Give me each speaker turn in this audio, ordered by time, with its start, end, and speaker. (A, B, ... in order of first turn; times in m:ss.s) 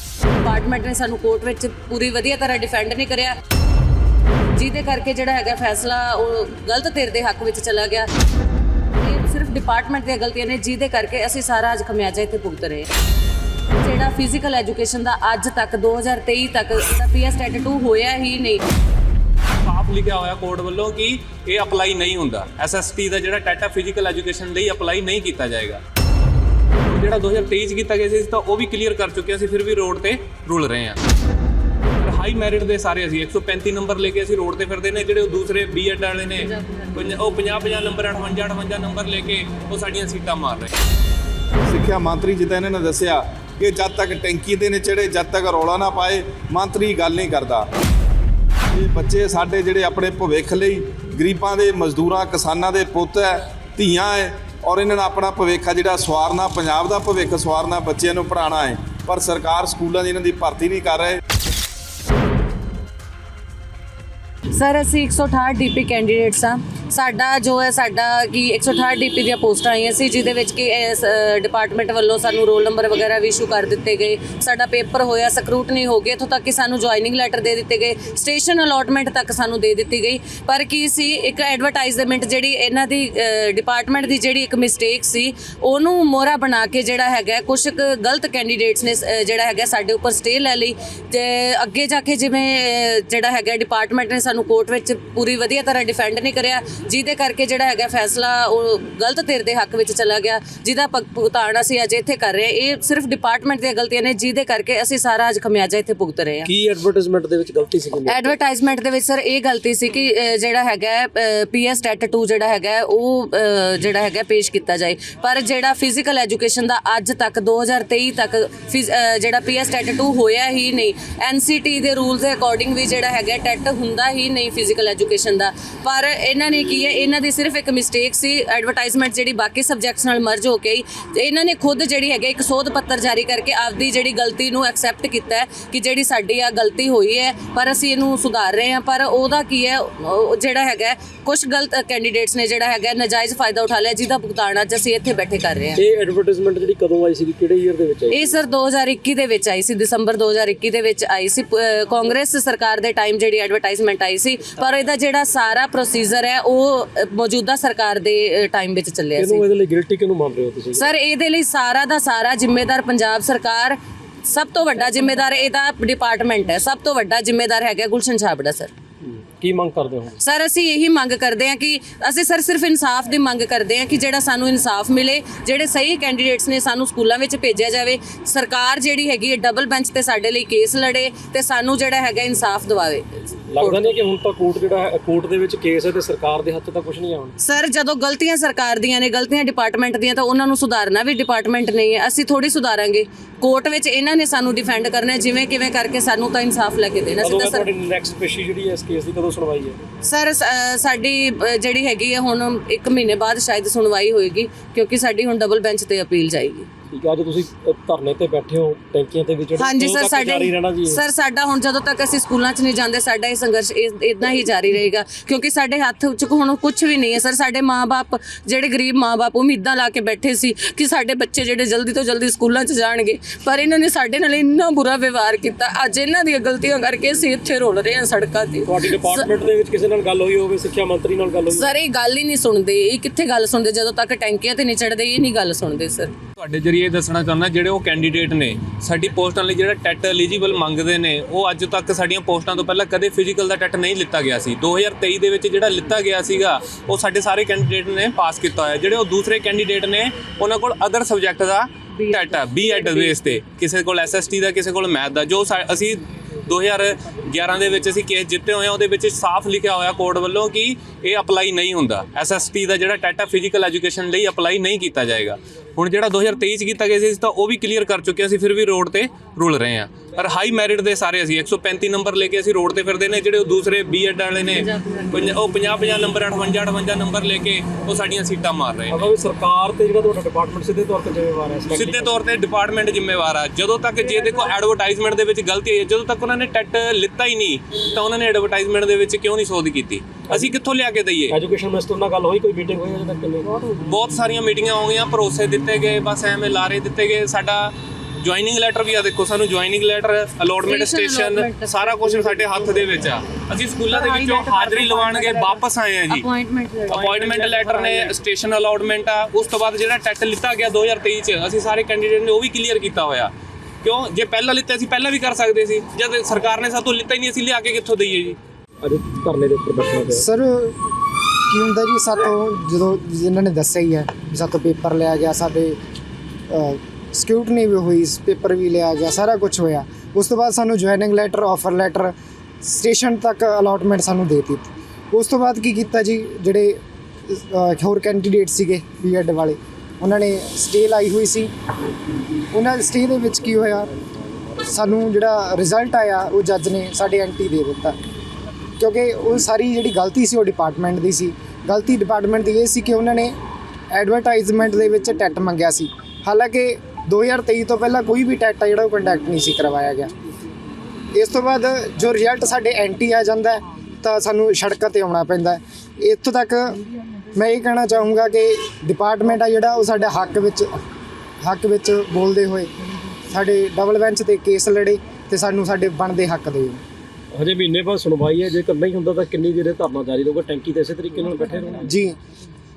0:00.3-0:03.4 A
0:04.5-0:08.1 A
0:09.0-0:12.9 A
0:13.8-0:18.6 A
0:19.6-0:25.8 B
0:26.9-0:31.0 B
0:32.0-0:40.7 B
0:36.4-0:37.1 A
0:41.7-0:47.7 C
0:48.7-1:01.2 C
1:04.5-1:46.5 A
1:46.4-1:48.4 D
1:48.0-2:25.8 A
2:25.8-2:28.3 D
2:28.1-2:39.4 A
2:39.2-2:40.9 D
2:40.8-2:48.7 A
2:49.0-2:50.2 D
2:50.2-3:04.0 A
3:03.5-3:07.3 D
3:07.4-3:17.7 A
3:17.2-3:19.8 D
3:20.0-3:26.7 A
3:26.9-3:31.0 D
3:29.6-3:49.3 A
3:48.7-3:51.7 D
3:51.5-3:56.1 A
3:56.4-4:39.1 B
4:11.9-4:13.3 A
4:34.6-4:35.2 A
4:38.9-4:42.2 D
4:41.7-4:51.4 B
4:50.3-4:50.5 D
4:51.3-4:53.5 D
4:53.9-5:06.2 B
5:00.6-5:02.8 A
5:03.9-5:07.1 A
5:06.9-5:08.2 D
5:06.9-5:13.3 B
5:13.8-5:18.4 B
5:18.8-5:20.2 D
5:20.1-5:20.8 E
5:21.5-5:25.8 E
5:26.5-5:41.5 E
5:42.5-5:43.9 E
5:44.6-5:48.0 E
5:48.8-5:53.4 E
5:53.9-6:00.1 E
6:01.1-6:06.8 E
6:07.3-6:10.7 E
6:11.4-6:12.7 E
6:13.3-6:16.8 E
6:17.3-6:21.9 D
6:21.8-6:22.2 E